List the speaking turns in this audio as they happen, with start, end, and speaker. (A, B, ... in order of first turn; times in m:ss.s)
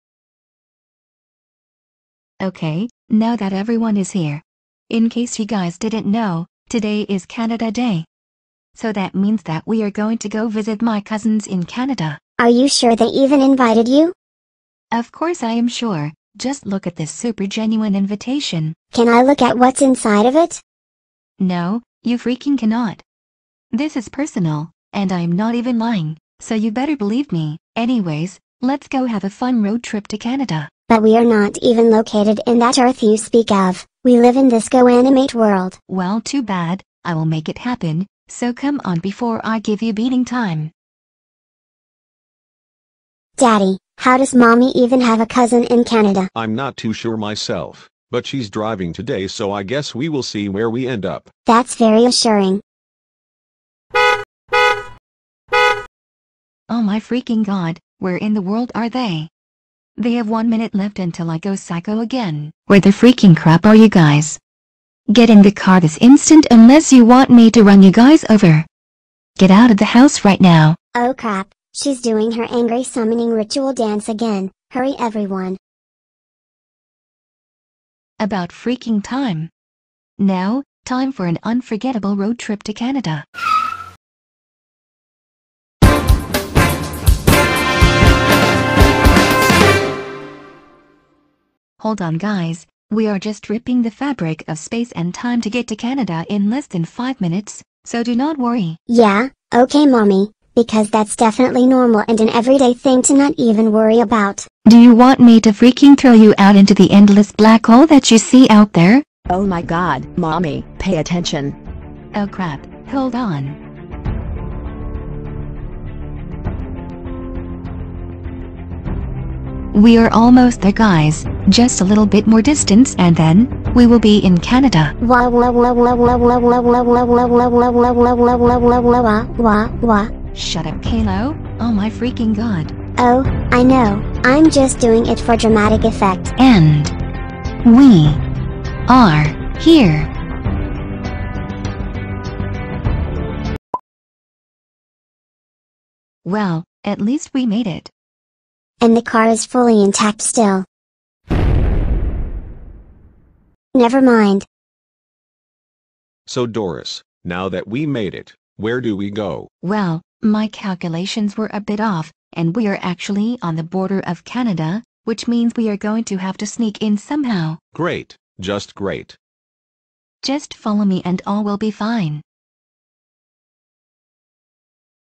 0:02.4-0:08.0 A
0:08.7-0:12.2 A
0:12.4-0:14.1 B
0:14.9-0:18.8 A
0:18.9-0:20.6 B
0:21.4-0:23.0 A
0:23.7-0:30.7 A
0:30.9-0:35.8 B
0:35.9-0:40.7 A
0:43.4-0:46.3 B
0:46.3-0:51.3 C
0:51.5-0:52.6 B
0:56.7-0:59.3 A
1:00.0-1:04.4 A
1:05.1-1:08.7 A
1:09.4-1:10.8 A
1:10.9-1:15.6 B
1:18.2-1:19.5 A
1:20.2-1:23.2 A
1:31.8-1:38.8 A
1:38.9-1:44.5 B
1:44.6-1:49.0 A
1:49.3-1:51.6 D
1:52.1-1:53.6 A
1:59.7-2:04.9 A
2:05.0-2:10.1 B
2:10.3-2:12.7 A
2:13.0-2:16.3 B
2:16.4-2:16.9 A
2:17.6-2:18.2 A
2:18.9-2:20.1 A
2:26.2-2:27.9 A
2:28.8-2:30.6 B
2:33.7-2:34.4 B
2:36.3-2:39.5 C
2:39.6-2:47.6 A
2:47.7-2:49.2 C
2:50.2-2:52.2 A